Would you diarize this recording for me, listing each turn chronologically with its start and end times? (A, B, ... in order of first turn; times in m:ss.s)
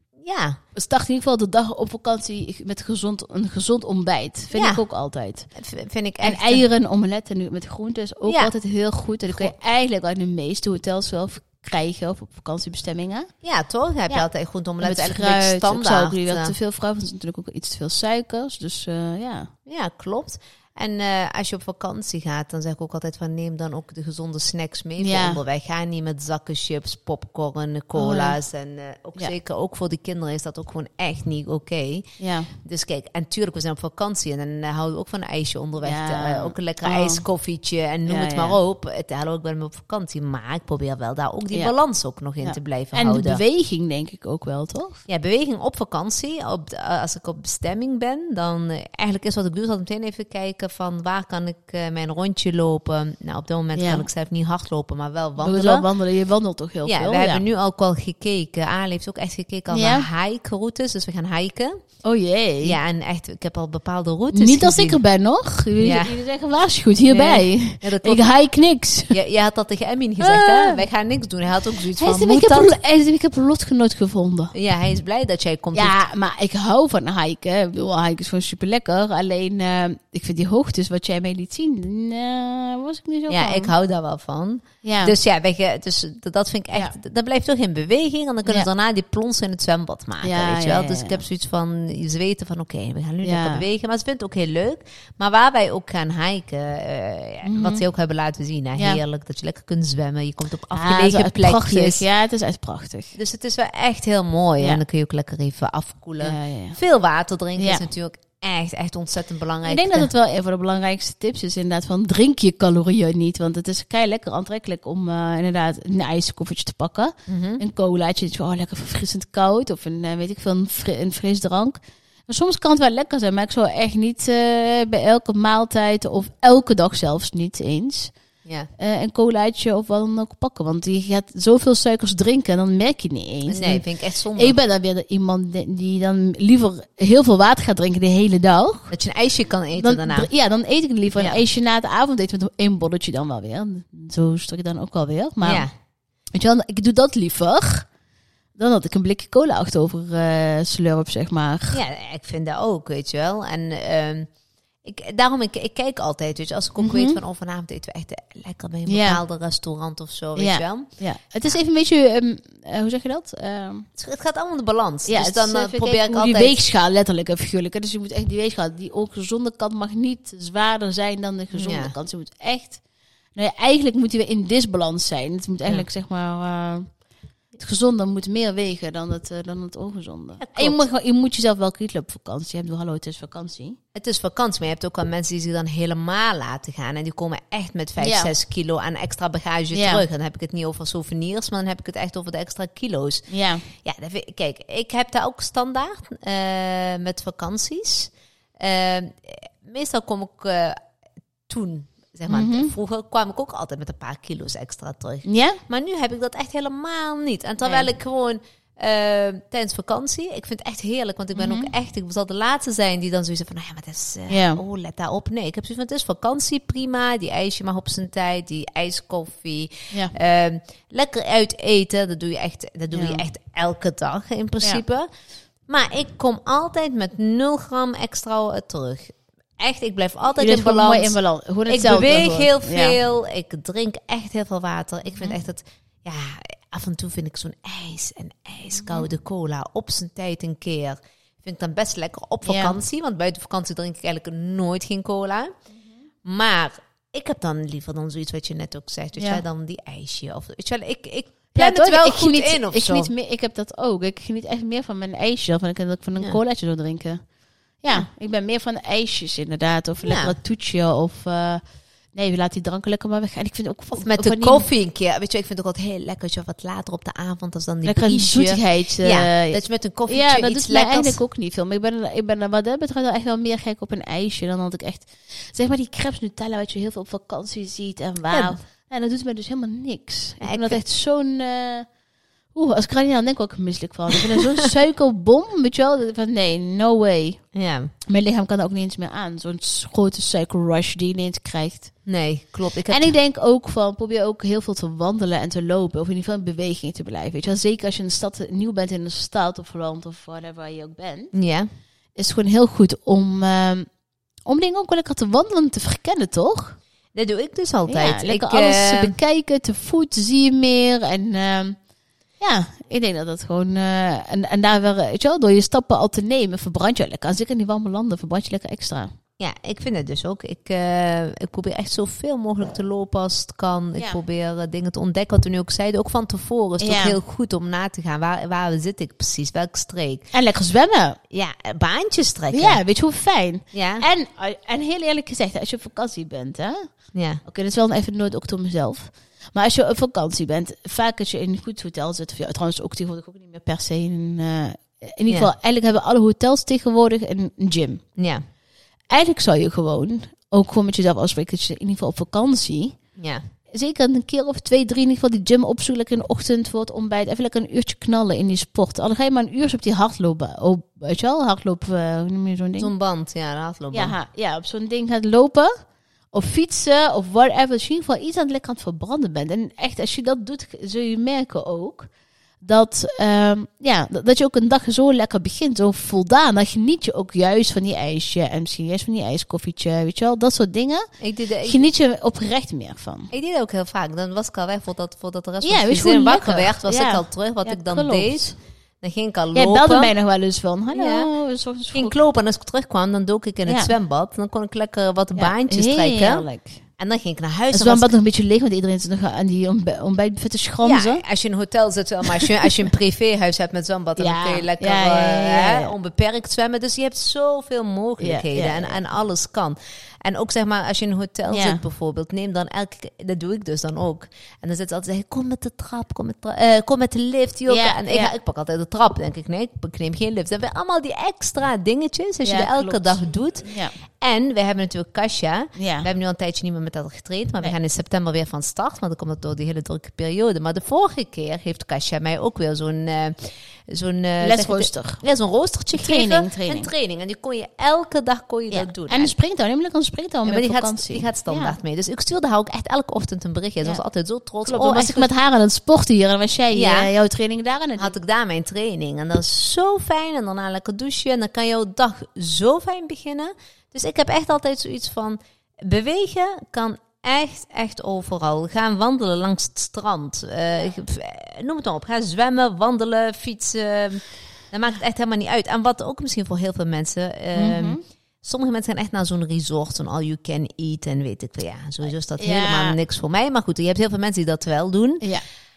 0:00.2-0:00.6 A
0:00.8-0:05.5 B
0:04.5-0:04.8 A
0:05.6-0:06.6 A
0:06.2-0:13.3 B
0:08.3-0:08.5 A
0:09.3-0:09.5 A
0:13.4-0:16.5 A
0:14.8-0:19.5 B
0:19.7-0:43.4 A
0:25.0-0:25.4 B
0:28.0-0:28.4 B
0:32.2-0:32.5 B
0:35.8-0:37.2 B
0:38.1-0:38.6 B
0:42.4-0:45.0 B
0:45.1-0:55.8 A
0:53.8-0:54.1 B
0:55.4-0:57.4 B
0:56.8-1:01.8 A
0:59.7-1:00.1 B
1:02.0-1:02.8 B
1:02.6-1:05.0 A
1:04.3-1:09.2 B
1:05.8-1:06.2 A
1:07.1-1:08.3 A
1:09.1-1:12.7 A
1:10.2-1:10.8 B
1:11.9-1:14.5 B
1:14.5-1:16.0 A
1:15.7-1:23.7 B
1:23.3-1:42.0 A
1:24.8-1:25.2 B
1:30.2-1:31.2 B
1:33.2-1:33.6 B
1:37.4-1:37.8 B
1:40.7-1:43.2 B
1:43.2-1:50.1 A
1:46.2-1:46.8 B
1:47.6-1:47.9 B
1:49.6-2:08.1 B
1:57.3-1:57.6 A
2:08.8-2:18.9 B
2:13.5-2:14.6 A
2:18.9-2:20.3 A
2:19.8-2:25.7 B
2:21.2-2:21.4 A
2:25.4-2:25.7 A
2:26.3-2:27.9 B
2:28.6-2:31.8 B
2:31.7-2:34.3 A
2:34.8-2:40.9 A
2:36.8-2:37.2 B
2:38.9-2:39.2 B
2:40.4-2:43.9 B
2:44.0-2:46.6 A
2:45.1-2:52.8 B
2:51.5-2:51.9 A
2:53.4-2:56.9 B
2:57.6-3:03.8 B
3:00.4-3:00.8 A
3:04.0-3:20.8 A
3:08.0-3:08.3 B
3:09.7-3:10.0 B
3:13.3-3:13.7 B
3:21.5-3:45.1 A
3:22.3-3:22.7 B
3:25.2-3:25.6 B
3:27.6-3:27.9 B
3:31.4-3:31.7 B
3:34.3-3:34.6 B
3:42.9-3:43.2 B
3:45.7-4:05.5 A
3:50.4-3:53.0 B
3:58.8-3:59.1 B
4:02.4-4:02.8 B
4:06.2-4:13.1 A
4:09.2-4:09.4 B
4:11.5-4:17.2 B
4:17.8-4:21.6 B
4:20.0-4:20.4 A
4:22.1-4:24.7 B
4:23.9-4:31.2 A
4:27.8-4:41.9 B
4:40.4-4:40.8 A
4:42.5-4:47.4 B
4:47.5-4:47.9 A
4:48.1-4:51.9 B
4:52.0-4:53.1 A
4:52.9-5:01.3 B
5:01.3-5:01.7 A
5:02.2-5:03.9 B
5:04.5-5:06.8 B
5:07.2-5:09.2 A
5:07.9-5:11.8 B
5:12.4-5:19.1 B
5:19.4-5:30.2 A
5:26.8-5:27.2 B
5:30.3-5:31.2 B
5:31.3-5:32.8 A
5:32.5-5:36.9 B
5:33.7-5:34.0 A
5:37.1-5:37.4 A
5:37.4-5:48.0 B
5:48.2-5:48.4 A
5:49.1-5:53.0 B
5:53.2-5:53.4 A
5:53.7-6:02.9 B
6:02.8-6:04.2 A
6:03.9-6:05.7 B
6:06.3-6:12.1 B
6:12.6-6:21.1 B
6:21.2-6:21.8 A
6:21.6-6:23.3 B
6:23.3-6:30.1 A
6:25.6-6:28.6 B
6:29.6-6:32.2 B
6:30.9-6:31.3 A
6:31.9-6:36.5 A
6:33.7-6:33.9 B
6:35.4-6:36.8 B
6:37.0-6:38.1 A
6:37.7-6:41.2 B
6:40.8-7:19.3 A
6:42.3-6:42.7 B
6:44.2-6:45.9 B
6:48.2-6:49.0 B
6:51.5-6:51.8 B
6:57.7-6:58.3 B
7:02.4-7:04.0 B
7:05.8-7:06.1 B
7:14.4-7:15.2 B
7:15.9-7:16.9 B
7:18.7-7:21.8 B
7:20.5-7:25.3 A
7:24.6-7:28.1 B
7:26.7-7:27.1 A
7:28.0-7:55.3 A
7:47.5-7:48.0 B
7:52.4-7:53.0 B
7:55.2-7:55.5 B